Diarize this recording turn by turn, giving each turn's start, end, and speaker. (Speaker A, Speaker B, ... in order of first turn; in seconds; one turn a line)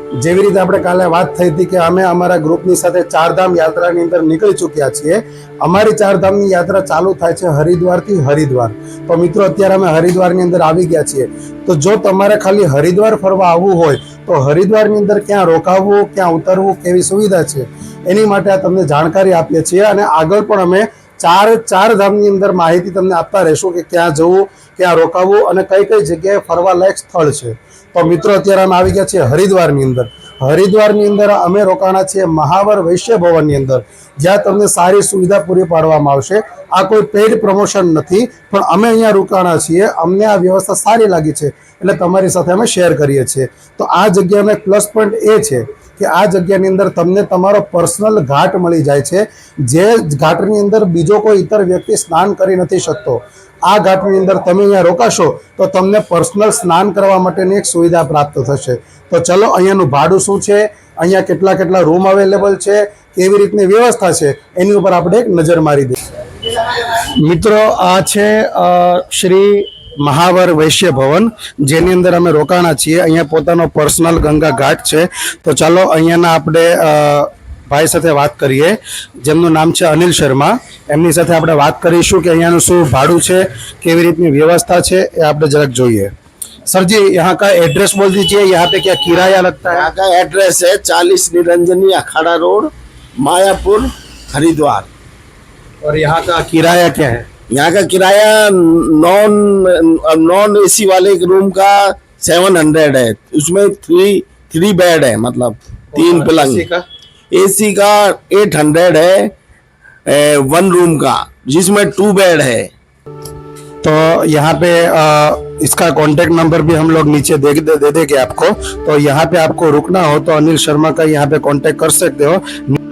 Speaker A: 0.2-66.0
Speaker A: 66.7-86.1
Speaker A: 86.7-89.9
Speaker B: 89.7-94.9
Speaker A: 95.8-97.2
Speaker B: 97.5-106.7
Speaker A: 105.9-106.8
Speaker B: 107.3-109.3
Speaker B: 110.1-112.7
Speaker A: 113.8-122.8